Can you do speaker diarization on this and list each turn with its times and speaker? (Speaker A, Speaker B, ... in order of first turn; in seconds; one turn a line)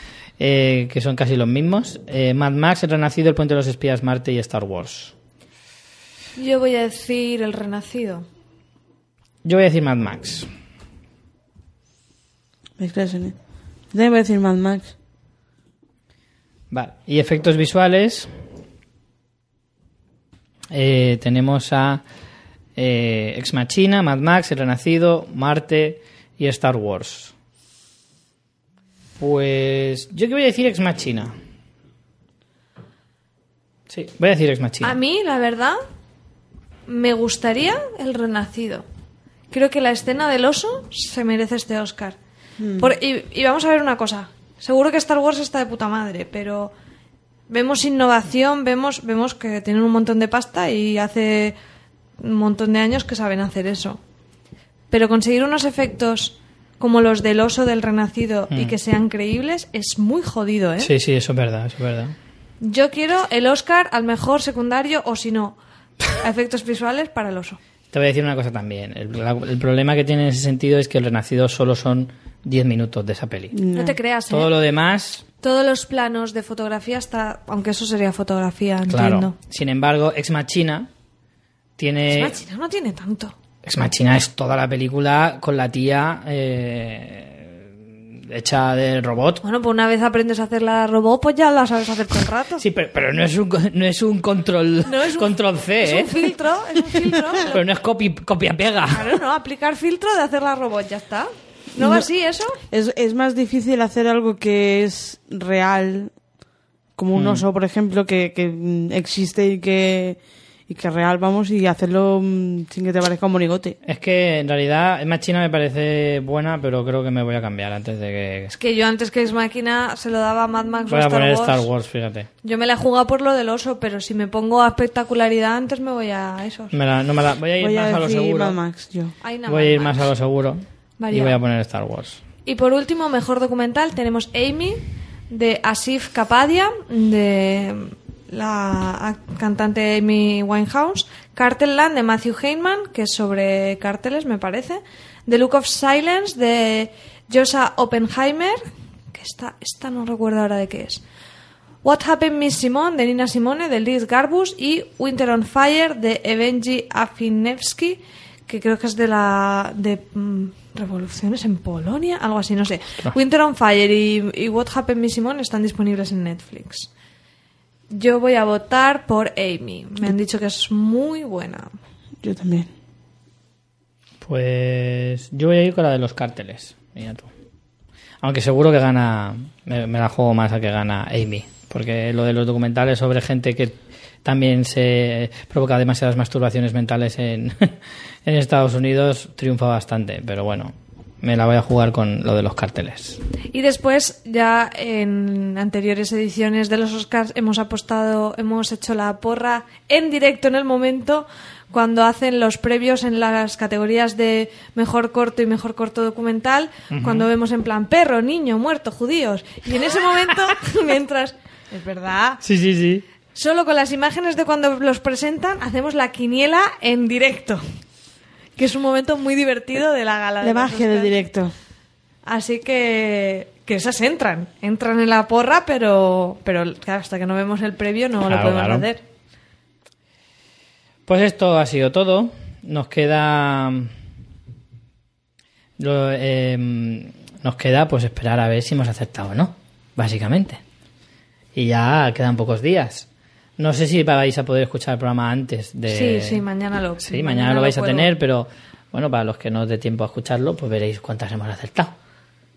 Speaker A: 0.4-5.1
Speaker B: 6.4-8.3
Speaker A: 9.4-10.5
Speaker C: 12.8-13.3
Speaker C: 13.9-14.9
Speaker A: 16.7-18.3
Speaker A: 20.7-22.0
Speaker A: 22.8-27.3
Speaker A: 29.2-31.3
Speaker A: 33.9-35.0
Speaker B: 34.8-35.8
Speaker B: 36.9-38.9
Speaker B: 39.5-42.2
Speaker C: 42.6-42.9
Speaker B: 42.8-46.7
Speaker B: 47.5-51.6
Speaker B: 52.2-54.0
Speaker B: 54.9-60.9
Speaker A: 58.5-58.8
Speaker A: 60.8-62.1
Speaker B: 62.6-65.6
Speaker B: 66.1-67.6
Speaker A: 67.9-73.5
Speaker C: 73.5-74.0
Speaker B: 73.7-74.5
Speaker A: 74.3-75.2
Speaker B: 75.4-79.3
Speaker A: 78.9-80.9
Speaker A: 81.8-82.3
Speaker B: 82.1-83.3
Speaker A: 83.7-89.4
Speaker B: 89.4-92.6
Speaker A: 92.6-96.2
Speaker B: 94.8-97.6
Speaker A: 97.5-99.1
Speaker B: 98.9-102.6
Speaker C: 101.8-102.0
Speaker C: 102.7-106.1
Speaker C: 107.0-113.8
Speaker A: 107.2-107.5
Speaker A: 113.8-118.5
Speaker B: 118.5-121.7
Speaker A: 120.9-122.3
Speaker B: 122.4-126.7
Speaker A: 126.7-128.6
Speaker C: 127.6-129.1
Speaker B: 129.2-130.1
Speaker A: 129.5-132.2
Speaker B: 131.0-131.4
Speaker B: 132.5-151.0
Speaker B: 151.8-166.9
Speaker B: 167.9-171.7
Speaker C: 172.2-172.7
Speaker A: 174.2-177.3
Speaker A: 178.2-187.7
Speaker A: 188.2-193.2
Speaker B: 193.5-212.4
Speaker A: 206.9-207.3
Speaker A: 212.4-213.0
Speaker B: 213.3-217.6
Speaker B: 218.6-221.2
Speaker C: 220.4-221.5
Speaker B: 222.3-229.0
Speaker A: 228.3-228.9
Speaker A: 231.1-233.9
Speaker A: 235.8-240.6
Speaker A: 241.6-243.1
Speaker A: 243.6-246.4
Speaker B: 245.9-248.1
Speaker A: 247.0-251.9